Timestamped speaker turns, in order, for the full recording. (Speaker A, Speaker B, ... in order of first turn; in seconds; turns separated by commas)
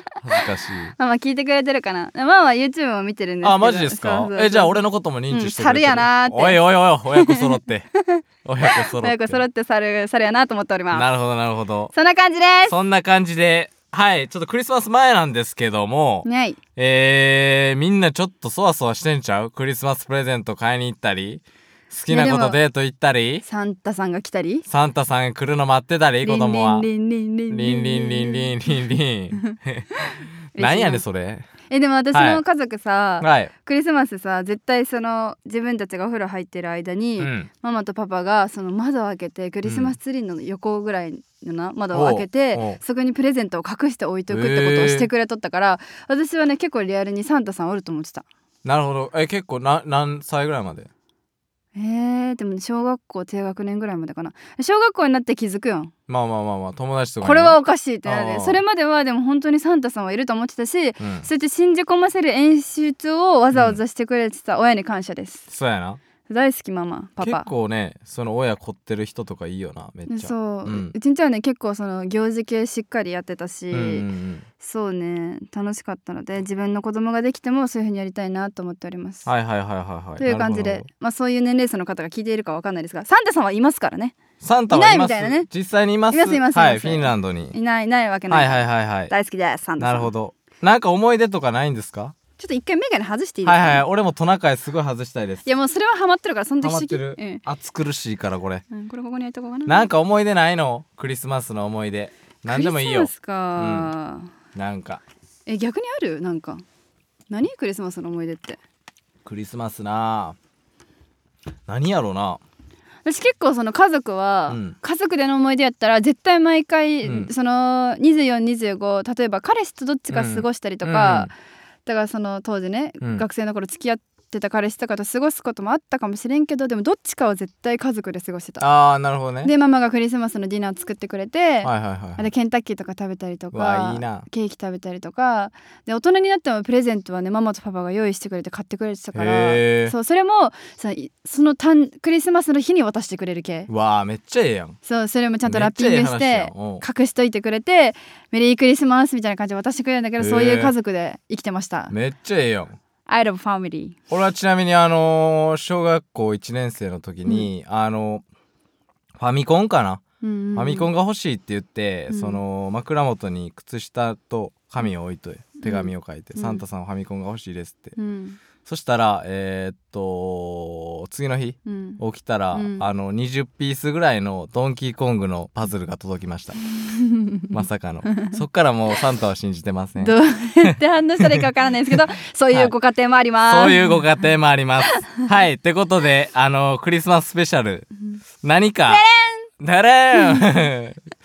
Speaker A: 0.2-0.9, Speaker B: 1.0-4.8, Speaker A: 3.4-7.9, Speaker B: 5.3-6.6, Speaker B: 7.1-11.1, Speaker A: 8.4-9.4, Speaker A: 10.9-11.9, Speaker B: 11.9-12.8, Speaker A: 12.7-23.4, Speaker B: 16.2-16.6, Speaker B: 22.1-22.6, Speaker B: 23.4-24.6, Speaker A: 24.7-26.9, Speaker B: 26.2-31.0, Speaker A: 27.5-29.9, Speaker A: 30.6-31.5, Speaker B: 31.7-48.2, Speaker A: 32.1-32.4, Speaker A: 33.2-33.5, Speaker A: 37.2-37.5, Speaker A: 39.6-39.9, Speaker A: 41.9-42.8, Speaker A: 44.3-45.1, Speaker A: 48.6-50.9, Speaker B: 51.7-55.9, Speaker A: 56.1-58.6, Speaker B: 57.2-65.5, Speaker A: 61.0-61.3, Speaker A: 63.5-63.8, Speaker A: 65.5-66.0, Speaker B: 66.3-67.5, Speaker A: 67.2-70.9, Speaker B: 70.1-74.1, Speaker A: 73.7-74.5, Speaker B: 74.6-79.3, Speaker A: 79.2-80.9, Speaker B: 80.2-84.1, Speaker A: 84.4-87.5, Speaker B: 84.7-85.5, Speaker B: 86.1-90.1, Speaker A: 88.3-89.1, Speaker A: 89.8-92.1, Speaker B: 92.4-93.8, Speaker A: 93.4-95.4, Speaker B: 95.4-97.4, Speaker A: 96.6-98.6, Speaker B: 98.7-99.9, Speaker A: 99.7-103.9, Speaker B: 102.5-104.3, Speaker A: 104.5-105.0, Speaker B: 105.5-106.6, Speaker B: 107.3-108.6, Speaker A: 109.2-110.3, Speaker A: 111.7-112.4, Speaker B: 113.0-121.3, Speaker A: 114.5-114.8, Speaker A: 117.0-117.3, Speaker A: 120.1-121.3, Speaker B: 121.8-128.6, Speaker A: 128.6-129.5, Speaker B: 129.4-143.7, Speaker A: 131.6-132.2, Speaker A: 133.5-134.2, Speaker A: 139.1-139.9, Speaker A: 143.7-144.8, Speaker B: 144.8-151.9, Speaker A: 145.4-146.8, Speaker A: 150.2-150.7, Speaker A: 151.9-152.8, Speaker B: 153.1-154.0, Speaker A: 154.1-158.2, Speaker A: 159.2-160.0, Speaker B: 160.2-160.9, Speaker A: 160.5-167.9, Speaker B: 162.1-162.4, Speaker B: 165.6-166.6, Speaker B: 167.9-168.4, Speaker A: 168.6-176.6, Speaker B: 171.6-172.0, Speaker B: 172.5-172.9, Speaker B: 176.8-177.5, Speaker A: 177.5-181.4, Speaker B: 178.1-178.3, Speaker B: 180.0-184.1, Speaker A: 183.5-187.9, Speaker A: 188.4-189.0, Speaker B: 188.9-189.5, Speaker A: 189.6-191.0, Speaker B: 190.1-190.5